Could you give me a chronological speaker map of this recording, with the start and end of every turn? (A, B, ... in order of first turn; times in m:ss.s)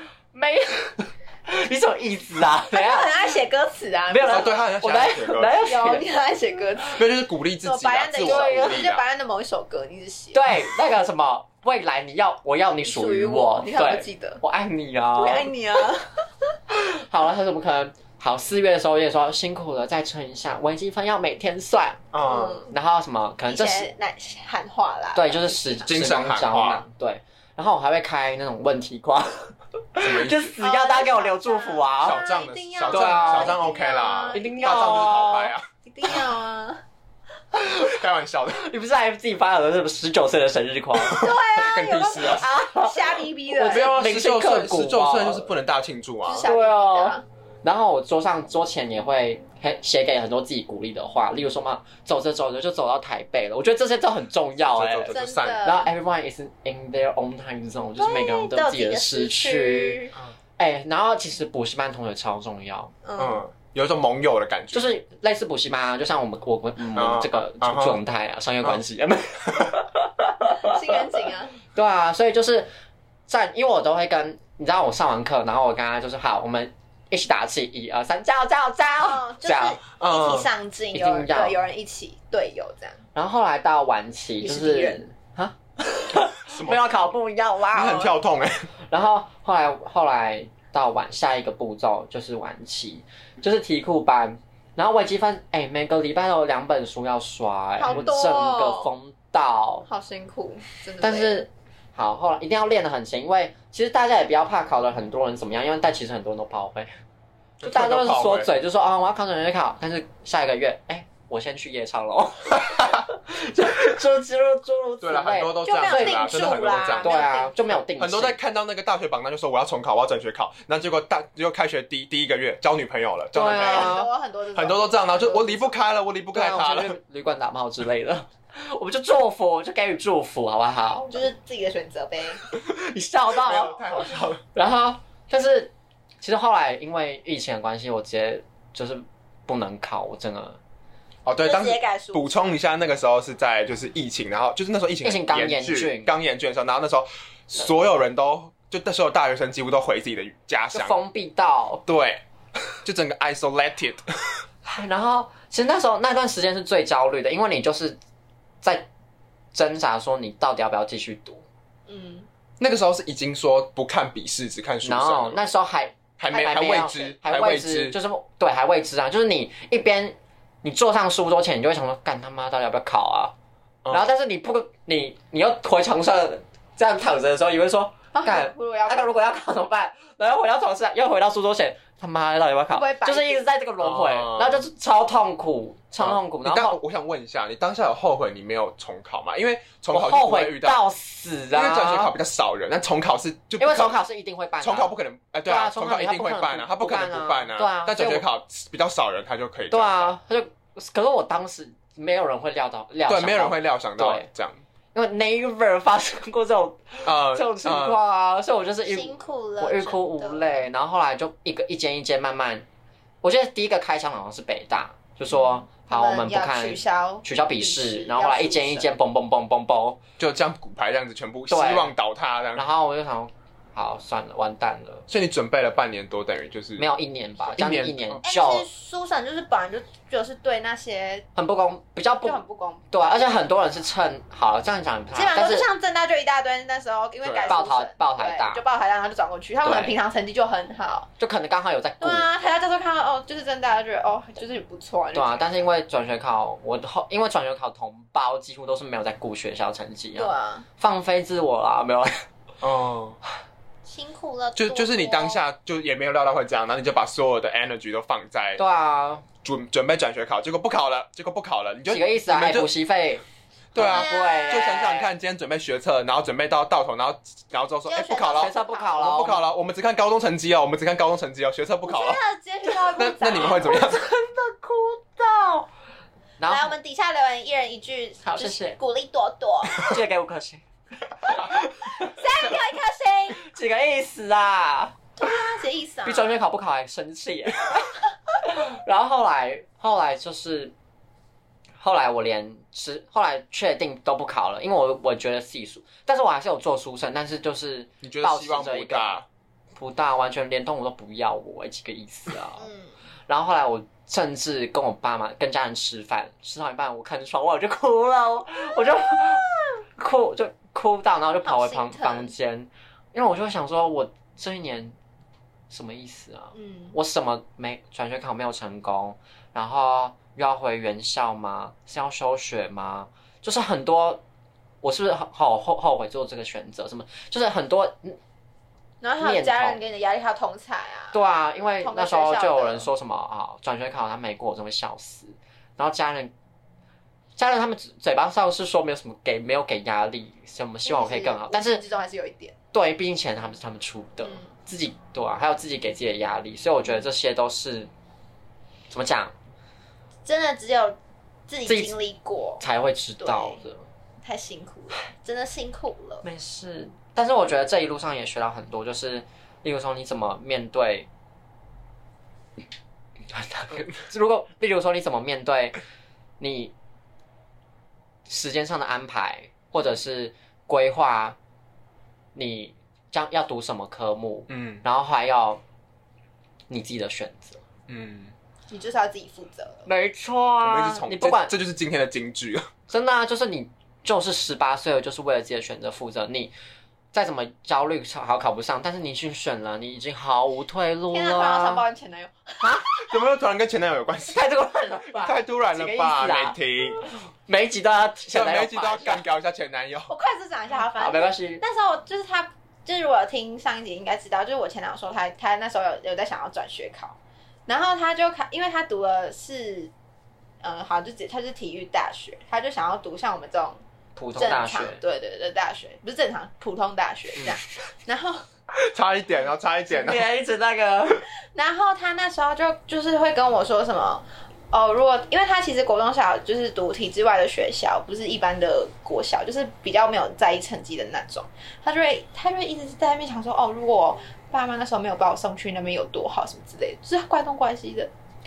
0:00.3-0:03.3 A
0:02.7-0:04.6 B
0:04.1-0:06.1 A
0:04.2-0:05.6 C
0:05.6-0:07.0 B
0:07.0-0:09.0 C
0:07.6-0:10.5 B
0:08.2-0:08.8 A
0:10.3-0:15.5 A
0:12.8-0:14.4 B
0:15.2-0:16.2 B
0:16.8-0:22.0 A
0:22.1-0:22.6 C
0:22.3-0:22.7 B
0:22.7-0:23.9 A
0:23.5-0:25.9 B
0:25.2-0:32.2 A
0:25.9-0:26.8 C
0:30.0-0:30.6 C
0:30.6-0:35.1 B
0:32.0-0:35.7 C
0:32.9-0:33.6 A
0:34.3-0:35.5 A
0:35.8-0:36.8 B
0:37.8-0:38.7 C
0:38.6-0:41.3 A
0:41.0-0:43.9 B
0:41.2-0:42.4 C
0:42.2-0:45.5 A
0:43.6-0:46.5 C
0:46.2-0:47.2 B
0:46.4-1:00.0 A
0:54.6-0:55.7 C
0:55.1-0:55.9 B
0:58.0-1:00.1 B
1:00.6-1:02.9 A
1:03.0-1:03.4 B
1:03.2-1:04.9 C
1:04.7-1:11.0 A
1:07.0-1:08.0 C
1:10.6-1:11.6 B
1:11.8-1:12.7 A
1:13.3-1:19.8 A
1:19.0-1:23.0 B
1:20.0-1:20.5 C
1:20.9-1:21.6 A
1:23.2-1:28.1 A
1:24.4-1:25.0 B
1:26.4-1:26.9 C
1:27.7-1:28.7 C
1:28.9-1:39.9 A
1:37.8-1:38.9 B
1:39.9-1:41.5 B
1:41.0-1:46.9 A
1:47.6-1:48.5 C
1:47.6-1:58.4 A
1:55.0-1:57.2 C
1:55.6-1:57.5 B
1:57.8-2:04.0 C
2:03.3-2:04.1 A
2:03.6-2:05.8 B
2:04.6-2:07.0 C
2:06.3-2:11.3 A
2:11.0-2:12.4 B
2:12.5-2:13.8 A
2:13.3-2:14.4 C
2:14.5-2:20.6 A
2:21.2-2:31.0 C
2:21.4-2:22.4 B
2:25.0-2:26.1 A
2:30.7-2:31.8 A
2:31.9-2:32.2 C
2:32.8-2:34.4 C
2:34.6-2:38.0 A
2:38.6-2:38.9 A
2:39.5-2:41.4 A
2:41.9-2:42.3 B
2:42.6-2:45.4 C
2:44.8-2:53.3 A
2:46.2-2:48.0 C
2:53.9-3:06.8 A
2:58.1-2:59.1 B
3:02.7-3:03.5 B
3:03.8-3:04.6 C
3:06.0-3:10.8 C
3:09.9-3:12.1 A
3:11.5-3:14.0 C
3:13.6-3:14.9 A
3:14.6-3:20.2 C
3:15.5-3:18.2 A
3:19.7-3:24.3 A
3:23.1-3:24.6 C
3:24.9-3:32.6 A
3:27.0-3:28.0 C
3:28.9-3:30.4 B
3:33.2-3:40.0 A
3:35.3-3:38.9 B
3:40.2-3:42.7 C
3:41.5-3:41.9 A
3:42.6-3:45.1 A
3:45.1-3:46.8 C
3:46.8-3:48.7 A
3:47.5-3:48.2 C
3:48.2-3:51.3 B
3:51.4-3:55.7 A
3:52.2-3:53.3 B
3:55.1-4:01.1 B
3:57.2-3:57.6 C
3:57.5-3:58.6 A
3:59.6-4:00.0 A
4:01.2-4:02.3 A
4:02.0-4:05.7 B
4:05.1-4:12.1 A
4:10.2-4:10.7 B
4:12.6-4:13.2 C
4:13.8-4:15.4 B
4:14.6-4:18.6 C
4:18.6-4:19.2 A
4:19.4-4:22.7 C
4:21.9-4:23.2 A
4:23.7-4:32.2 C
4:23.8-4:25.1 A
4:23.8-4:24.8 B
4:27.9-4:28.9 B
4:28.3-4:29.4 A
4:31.9-4:33.8 B
4:33.0-4:34.0 C
4:33.6-4:35.7 A
4:36.4-4:36.8 A
4:36.4-4:40.0 B
4:38.2-4:38.8 A
4:39.7-4:40.6 A
4:41.2-4:42.5 A
4:42.0-4:43.4 B
4:43.4-4:45.0 A
4:45.2-4:46.4 B
4:46.1-4:50.7 A
4:51.8-4:59.2 A
4:58.0-4:59.3 C
4:59.8-5:02.7 A
5:02.6-5:02.9 B
5:03.3-5:15.0 A
5:11.4-5:12.3 B
5:15.7-5:24.2 A
5:16.5-5:17.0 B
5:24.8-5:28.2 A
5:29.0-5:31.2 B
5:29.2-5:29.8 A
5:31.1-5:36.3 A
5:31.8-5:32.9 B
5:37.4-5:41.8 A
5:40.9-5:42.6 B
5:42.7-5:47.9 A
5:48.9-5:49.3 A
5:50.2-5:52.6 B
5:51.7-5:52.0 A
5:52.6-5:53.8 A
5:53.2-5:53.6 B
5:54.2-5:56.2 B
5:56.2-6:01.1 A
6:03.3-6:05.8 A
6:06.4-6:06.7 A
6:08.3-6:11.4 A
6:12.4-6:15.6 A
6:14.5-6:14.8 C
6:16.7-6:17.6 A
6:17.9-6:18.3 C
6:18.7-6:19.9 B
6:19.9-6:21.5 A
6:20.6-6:22.7 C
6:22.9-6:26.5 A
6:27.1-6:31.8 A
6:31.1-6:32.7 B
6:33.0-6:34.4 C
6:34.3-6:36.6 A
6:35.2-6:37.0 C
6:37.5-6:39.2 A
6:38.3-6:40.1 C
6:40.1-6:49.9 B
6:41.0-6:41.6 A
6:50.6-6:53.8 B
6:54.2-6:55.0 A
6:54.4-6:58.4 B
6:58.8-7:00.3 C
6:59.9-7:01.2 A
7:01.5-7:18.1 B